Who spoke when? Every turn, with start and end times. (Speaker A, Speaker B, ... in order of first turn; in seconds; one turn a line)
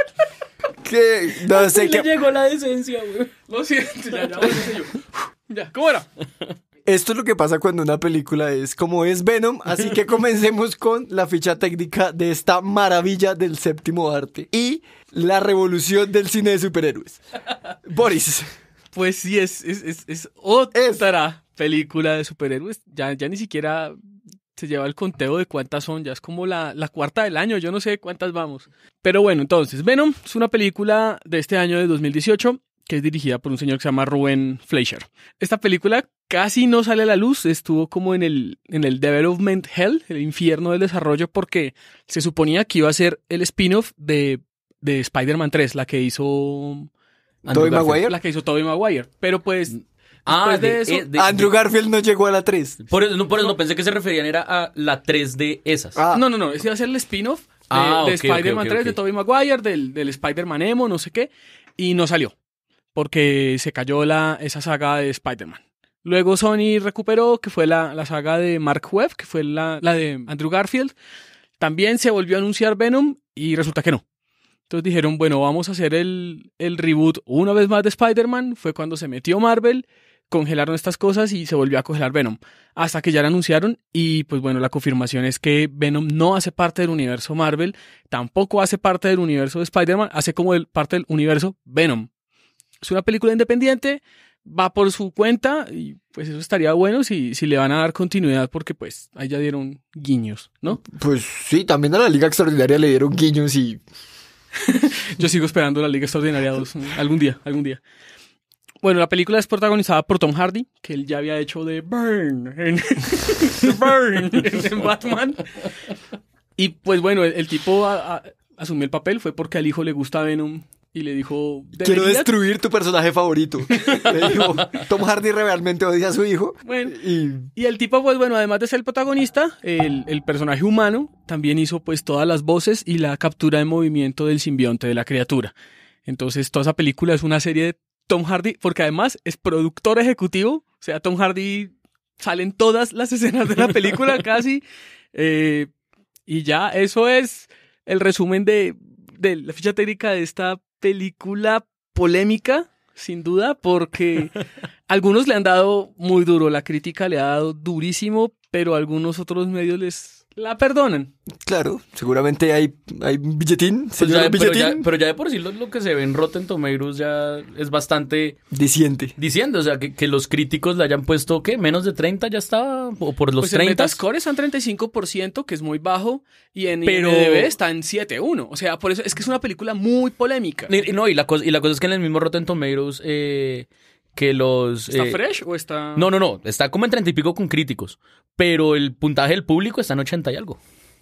Speaker A: 0.8-2.1
Speaker B: 1.5-3.3
Speaker C: 3.5-6.1
Speaker A: 6.8-17.2
Speaker A: 17.8-18.5
Speaker C: 18.9-24.0
Speaker A: 20.8-21.0
Speaker C: 24.6-46.9
Speaker B: 47.5-48.0
Speaker A: 47.5-48.2
Speaker C: 48.0-49.8
Speaker B: 49.7-51.5
Speaker C: 50.3-51.0
Speaker A: 51.1-52.8
Speaker B: 52.9-56.0
Speaker A: 56.0-56.2
Speaker C: 56.1-62.4
Speaker B: 57.7-59.0
Speaker C: 63.0-71.0
Speaker C: 71.6-74.0
Speaker C: 74.7-92.1
Speaker C: 92.8-100.8
Speaker A: 100.7-103.8
Speaker C: 104.6-107.8
Speaker C: 108.8-115.7
Speaker C: 116.6-122.3
Speaker A: 121.8-127.5
Speaker C: 123.8-124.4
Speaker C: 126.7-127.0
Speaker C: 127.5-135.5
Speaker C: 136.1-144.6
Speaker C: 145.1-145.7
Speaker C: 146.3-161.1
Speaker A: 161.5-164.8
Speaker B: 164.0-168.4
Speaker A: 168.5-169.1
Speaker B: 169.2-174.0
Speaker C: 173.4-180.7
Speaker B: 176.8-177.5
Speaker B: 180.7-185.2
Speaker C: 184.9-186.1
Speaker B: 185.9-190.6